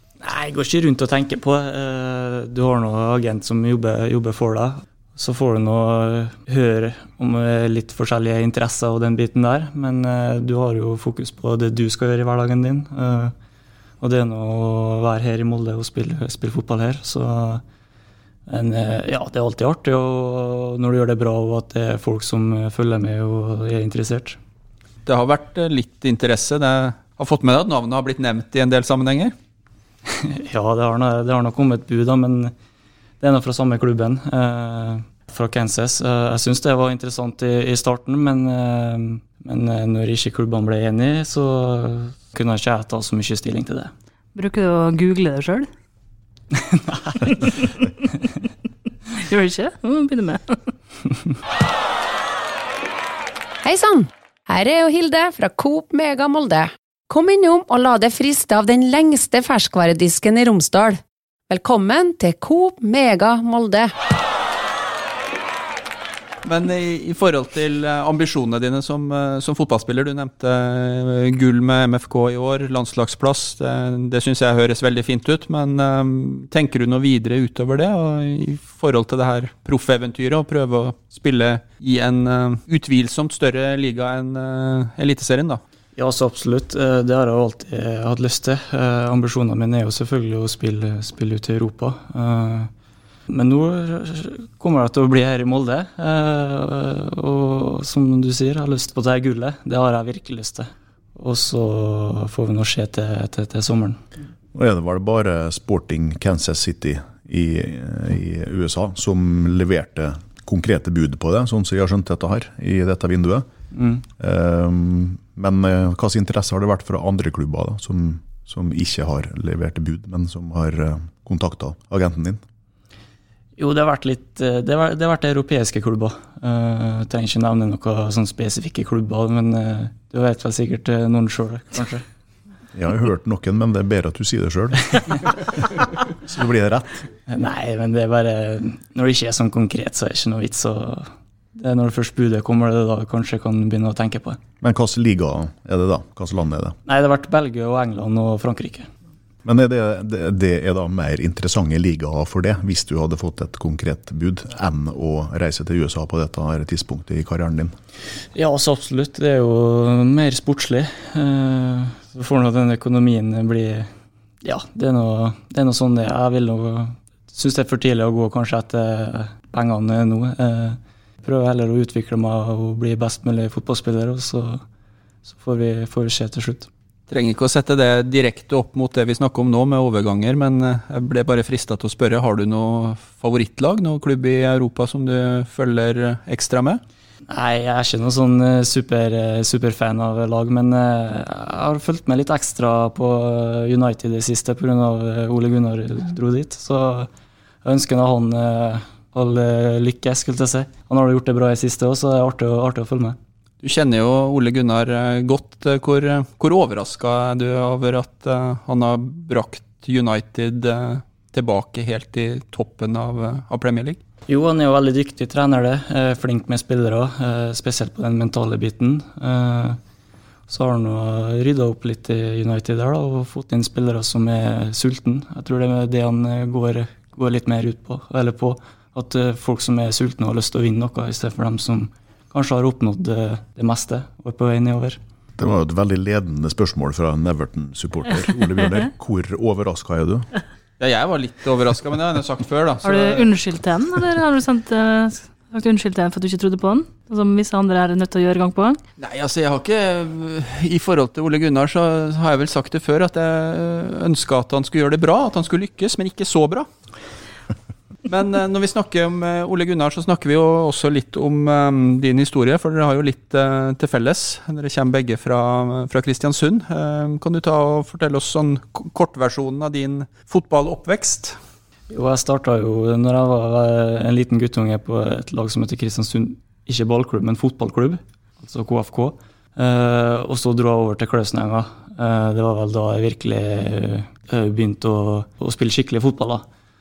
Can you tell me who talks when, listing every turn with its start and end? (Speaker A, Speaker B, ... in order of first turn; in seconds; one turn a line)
Speaker A: 0.2-13.3
Speaker A: 14.0-17.6
Speaker A: 18.5-24.4
Speaker B: 25.1-29.3
Speaker A: 30.1-32.5
Speaker A: 33.2-43.9
Speaker C: 44.4-45.7
Speaker A: 46.5-47.5
Speaker C: 49.1-50.6
Speaker D: 53.6-63.9
Speaker B: 66.4-85.6
Speaker A: 86.0-92.7
Speaker A: 93.3-104.0
Speaker E: 104.5-113.5
Speaker A: 113.7-114.0
Speaker E: 114.2-122.4
Speaker A: 123.6-132.0
Speaker E: 132.7-135.6
Speaker E: 136.2-137.1
Speaker A: 137.3-144.4
Speaker E: 144.6-146.8
Speaker A: 146.9-148.9
Speaker E: 149.4-157.7
Speaker A: 158.3-163.9
Speaker A: 164.4-174.6
Speaker A: 175.3-176.7
Speaker B: 177.1-186.8
Speaker A: 187.3-197.1
Speaker A: 197.6-203.2
Speaker B: 203.6-214.0
Speaker A: 214.3-219.8
Speaker A: 220.5-235.0
Speaker E: 235.4-240.3
Speaker B: 240.8-243.3
Speaker C: 242.8-248.8
Speaker B: 249.0-256.7
Speaker B: 258.1-271.4
Speaker A: 271.9-286.4